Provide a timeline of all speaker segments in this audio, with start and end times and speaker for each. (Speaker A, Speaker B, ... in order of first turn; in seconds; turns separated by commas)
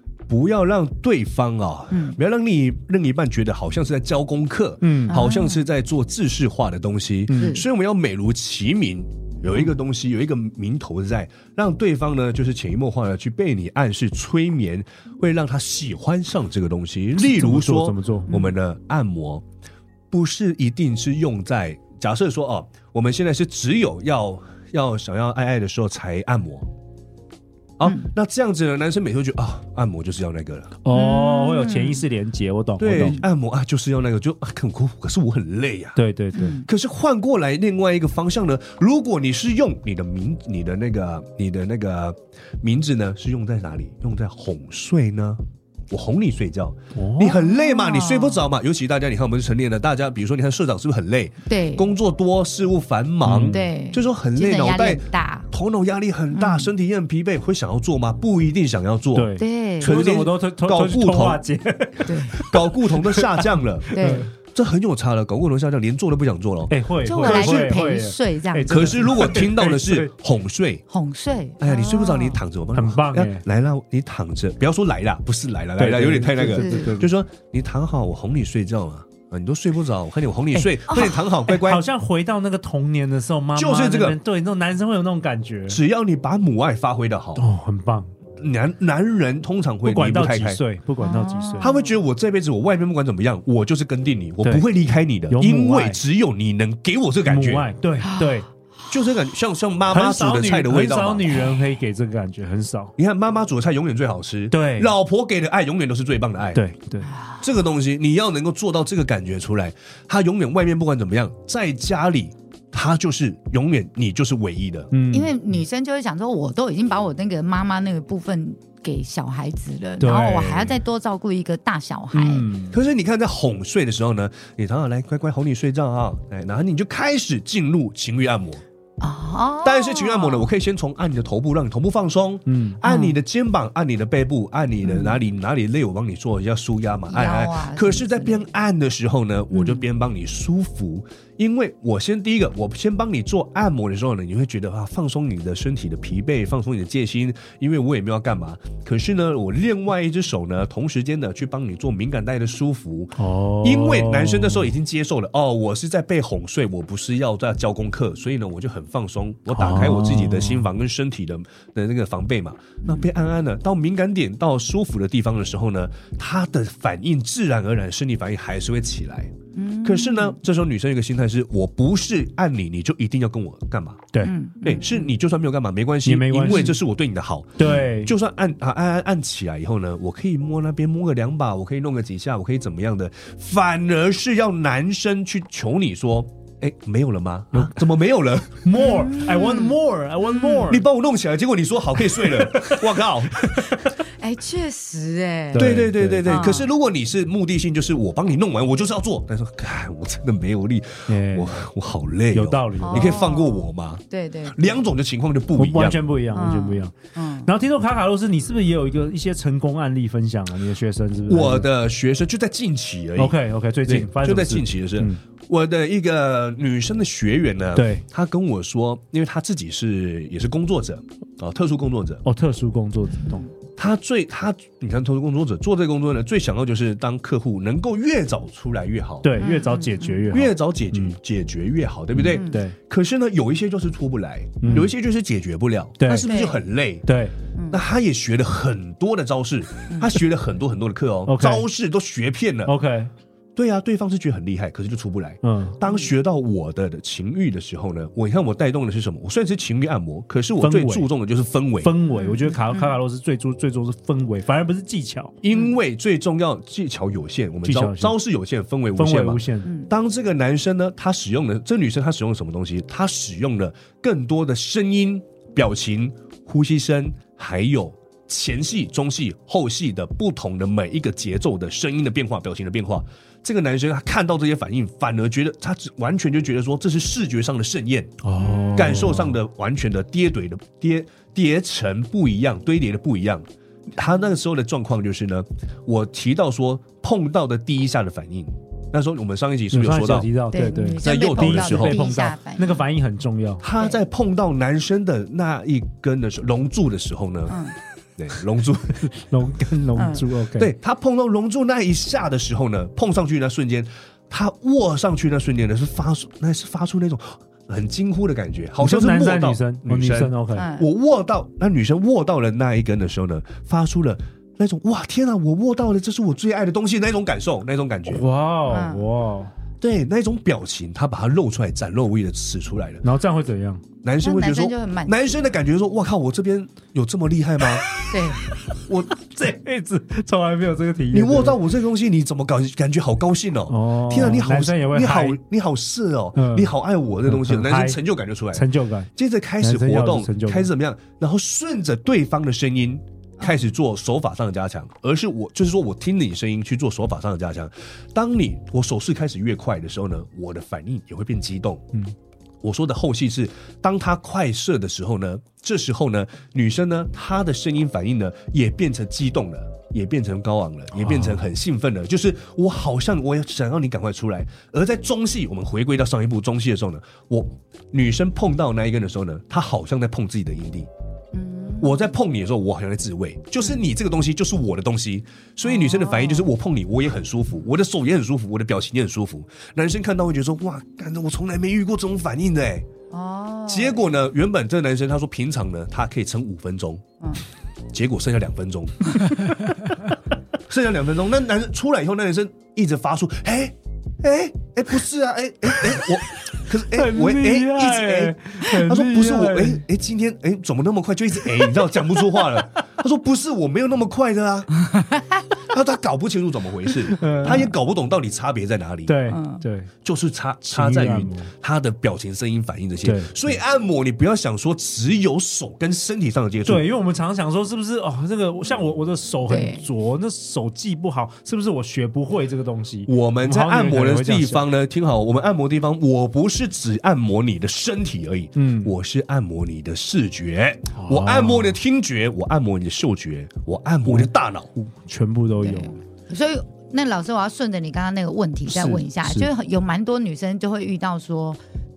Speaker A: 0.3-19.4, Speaker B: 1.9-2.2, Speaker C: 4.8-5.2, Speaker B: 5.1-5.7, Speaker C: 7.3-7.6, Speaker B: 7.3-7.6, Speaker C: 17.2-18.4, Speaker A: 20.1-26.7, Speaker A: 27.8-30.7, Speaker B: 27.8-28.1, Speaker C: 30.8-33.2, Speaker B: 30.9-32.0, Speaker A: 32.8-36.0, Speaker C: 36.0-36.6, Speaker B: 36.3-36.6, Speaker A: 36.6-59.3, Speaker C: 47.0-47.4, Speaker B: 47.3-48.5, Speaker B: 51.5-51.9, Speaker C: 53.2-53.7, Speaker B: 53.5-55.5, Speaker B: 56.3-56.7, Speaker C: 59.1-64.3, Speaker B: 59.4-59.9, Speaker A: 59.8-61.4, Speaker B: 62.0-62.3, Speaker A: 62.4-67.7, Speaker B: 63.9-64.3, Speaker C: 66.7-70.1, Speaker B: 67.0-69.3, Speaker A: 68.7-70.8, Speaker B: 70.9-72.4, Speaker A: 71.6-81.8, Speaker C: 72.7-73.4, Speaker C: 75.8-77.1, Speaker B: 76.5-77.0, Speaker B: 80.5-81.3, Speaker C: 81.5-85.8, Speaker A: 83.5-84.2, Speaker A: 85.7-87.4, Speaker C: 87.4-88.1, Speaker A: 88.4-90.6, Speaker C: 89.8-91.7, Speaker B: 91.0-91.9, Speaker A: 91.6-97.7, Speaker C: 95.3-96.0, Speaker C: 97.2-98.5, Speaker B: 98.0-98.9, Speaker A: 98.9-101.5, Speaker C: 99.9-102.9, Speaker A: 103.0-106.6, Speaker C: 104.5-104.9, Speaker C: 106.5-107.1, Speaker B: 107.0-107.4, Speaker A: 107.4-114.9, Speaker C: 114.9-115.3, Speaker B: 115.1-122.5, Speaker C: 120.0-120.8, Speaker C: 122.1-122.8, Speaker A: 122.7-128.6, Speaker B: 129.0-130.5, Speaker A: 129.6-169.3, Speaker C: 132.5-132.8, Speaker B: 132.8-133.2, Speaker B: 134.8-135.2, Speaker B: 137.1-138.5, Speaker B: 139.5-139.8, Speaker C: 153.2-154.7, Speaker C: 159.5-160.6, Speaker B: 162.8-163.1, Speaker B: 169.5-170.4, Speaker A: 169.8-174.1, Speaker B: 174.2-175.1, Speaker A: 174.6-188.7, Speaker C: 176.1-176.8, Speaker C: 177.6-178.1, Speaker C: 187.5-187.8, Speaker C: 188.6-190.8, Speaker B: 188.8-190.8, Speaker A: 190.7-193.4, Speaker C: 192.1-193.8, Speaker B: 194.2-196.7, Speaker C: 195.5-196.5, Speaker A: 195.6-206.0, Speaker C: 201.1-201.5, Speaker C: 202.3-203.2, Speaker B: 202.8-204.8, Speaker C: 205.6-211.7, Speaker B: 206.3-207.5, Speaker A: 211.3-222.2, Speaker C: 213.2-215.2, Speaker C: 217.8-218.0, Speaker C: 222.2-223.4, Speaker A: 223.8-229.4, Speaker C: 229.2-231.2, Speaker B: 229.4-230.3, Speaker A: 230.3-237.1, Speaker C: 232.1-232.8, Speaker B: 232.3-232.6, Speaker C: 234.6-234.9, Speaker C: 236.0-236.3, Speaker B: 236.2-236.6, Speaker C: 237.1-237.3, Speaker B: 237.5-237.8, Speaker A: 237.7-242.7, Speaker C: 241.2-241.7, Speaker C: 242.7-243.1, Speaker A: 243.6-251.9, Speaker C: 245.4-245.8, Speaker C: 250.6-251.1, Speaker C: 251.8-255.3, Speaker B: 252.1-252.9, Speaker A: 255.4-278.2, Speaker C: 257.6-258.1, Speaker C: 259.0-259.7, Speaker B: 259.6-259.9, Speaker C: 278.2-279.4, Speaker B: 278.4-279.1, Speaker A: 278.7-290.3, Speaker C: 289.7-293.6, Speaker B: 290.5-292.8, Speaker A: 291.0-292.0, Speaker A: 293.6-297.6, Speaker B: 297.5-297.8, Speaker A: 298.2-299.1, Speaker C: 299.1-300.7, Speaker B: 299.9-300.2, Speaker A: 300.6-318.2, Speaker C: 308.8-310.7, Speaker B: 310.5-310.9, Speaker C: 318.1-319.5, Speaker B: 318.7-319.1, Speaker A: 319.8-323.0, Speaker C: 323.0-323.8, Speaker A: 324.0-327.9, Speaker B: 324.2-325.5, Speaker C: 327.8-331.6, Speaker B: 328.1-328.4, Speaker A: 328.9-329.1, Speaker A: 331.1-351.9, Speaker C: 333.7-335.4, Speaker C: 336.4-336.7, Speaker C: 337.3-338.0, Speaker C: 338.5-339.1, Speaker C: 339.6-340.7, Speaker B: 343.4-343.7, Speaker A: 352.6-370.9, Speaker C: 360.9-361.5, Speaker B: 371.3-372.1, Speaker A: 371.8-382.9, Speaker B: 375.6-376.5, Speaker B: 383.1-384.0, Speaker A: 383.7-387.0, Speaker A: 387.9-389.7, Speaker A: 390.7-404.7, Speaker C: 396.9-399.8, Speaker B: 404.8-405.4, Speaker A: 405.6-409.1, Speaker C: 407.1-407.7, Speaker B: 407.4-407.7, Speaker C: 409.1-409.9, Speaker B: 409.3-409.6, Speaker A: 410.0-416.8, Speaker C: 410.6-411.5, Speaker C: 413.0-413.3, Speaker C: 416.6-424.6, Speaker B: 419.5-419.8, Speaker A: 423.1-434.7, Speaker C: 428.6-428.9, Speaker C: 430.9-431.8, Speaker C: 434.1-435.9, Speaker B: 435.6-441.6, Speaker C: 438.7-439.5